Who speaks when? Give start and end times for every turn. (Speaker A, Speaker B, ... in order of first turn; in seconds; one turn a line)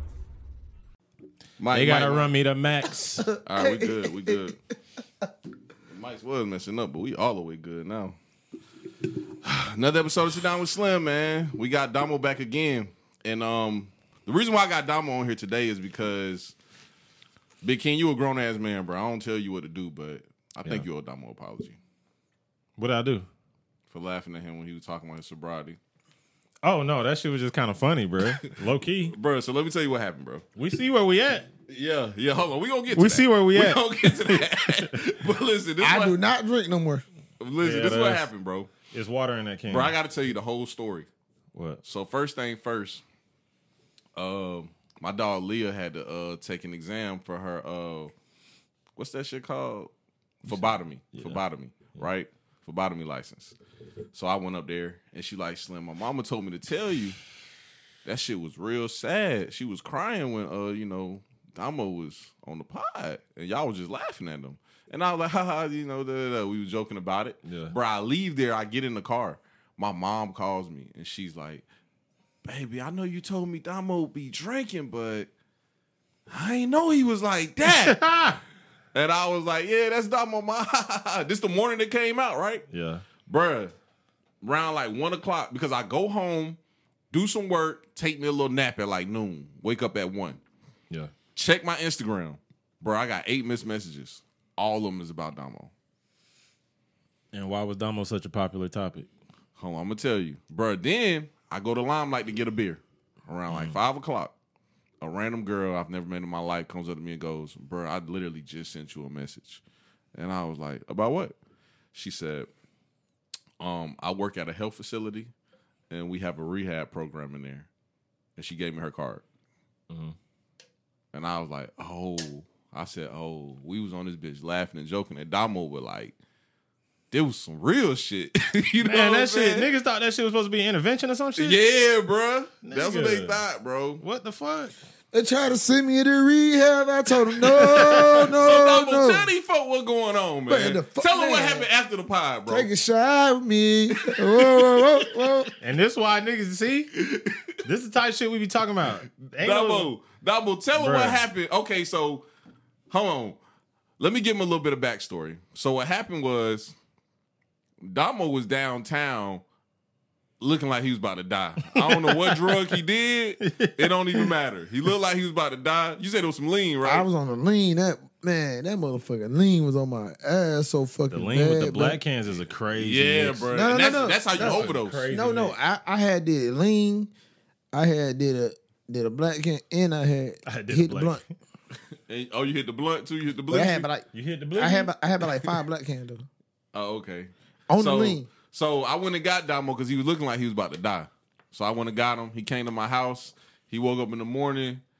Speaker A: 1.6-2.3
Speaker B: 1.7-3.2
Speaker C: 3.2-4.5
Speaker A: 3.4-4.6
Speaker A: 5.9-8.2
Speaker A: 9.4-16.6
Speaker A: 17.6-21.8
Speaker B: 22.8-23.3
Speaker A: 23.9-25.8
Speaker B: 26.6-29.1
Speaker A: 29.1-30.4
Speaker B: 30.6-31.5
Speaker A: 31.7-36.2
Speaker B: 32.9-35.0
Speaker C: 35.8-37.0
Speaker A: 37.4-38.7
Speaker B: 37.6-38.2
Speaker B: 38.9-39.9
Speaker A: 39.7-41.1
Speaker B: 41.5-41.8
Speaker A: 41.8-43.0
Speaker A: 44.1-48.1
Speaker A: 49.0-49.9
Speaker B: 50.4-51.4
Speaker A: 50.4-53.5
Speaker A: 54.1-57.2
Speaker A: 58.0-71.6
Speaker B: 67.4-67.7
Speaker A: 72.4-75.3
Speaker A: 76.3-78.1
Speaker B: 77.7-78.4
Speaker A: 78.9-82.7
Speaker B: 82.7-83.0
Speaker A: 83.2-83.7
Speaker A: 84.4-86.6
Speaker A: 87.1-90.4
Speaker A: 91.3-95.7
Speaker B: 97.3-99.1
Speaker A: 99.5-104.3
Speaker B: 103.5-103.8
Speaker A: 105.0-109.6
Speaker A: 110.1-111.3
Speaker A: 111.9-112.5
Speaker A: 113.6-115.3
Speaker A: 115.9-117.7
Speaker A: 118.3-119.2
Speaker B: 119.9-120.2
Speaker A: 121.1-126.1
Speaker A: 127.1-129.7
Speaker B: 128.8-131.6
Speaker A: 131.4-134.0
Speaker B: 132.6-133.4
Speaker B: 134.0-134.7
Speaker C: 135.1-139.3
Speaker B: 137.6-138.0
Speaker A: 138.1-142.7
Speaker C: 140.5-141.7
Speaker C: 142.5-145.5
Speaker A: 144.0-145.4
Speaker B: 145.6-146.9
Speaker A: 146.9-147.6
Speaker B: 147.6-149.9
Speaker A: 149.4-152.2
Speaker B: 150.8-151.2
Speaker A: 152.9-153.4
Speaker A: 154.0-156.7
Speaker A: 157.8-159.4
Speaker A: 160.4-167.1
Speaker B: 161.7-162.6
Speaker B: 163.4-164.3
Speaker C: 166.8-172.0
Speaker B: 171.1-173.5
Speaker A: 172.8-175.1
Speaker C: 173.5-177.1
Speaker B: 174.3-175.6
Speaker C: 177.7-181.2
Speaker B: 180.4-181.2
Speaker A: 182.1-183.9
Speaker C: 183.5-186.3
Speaker B: 184.1-184.9
Speaker A: 186.7-194.8
Speaker C: 187.7-188.3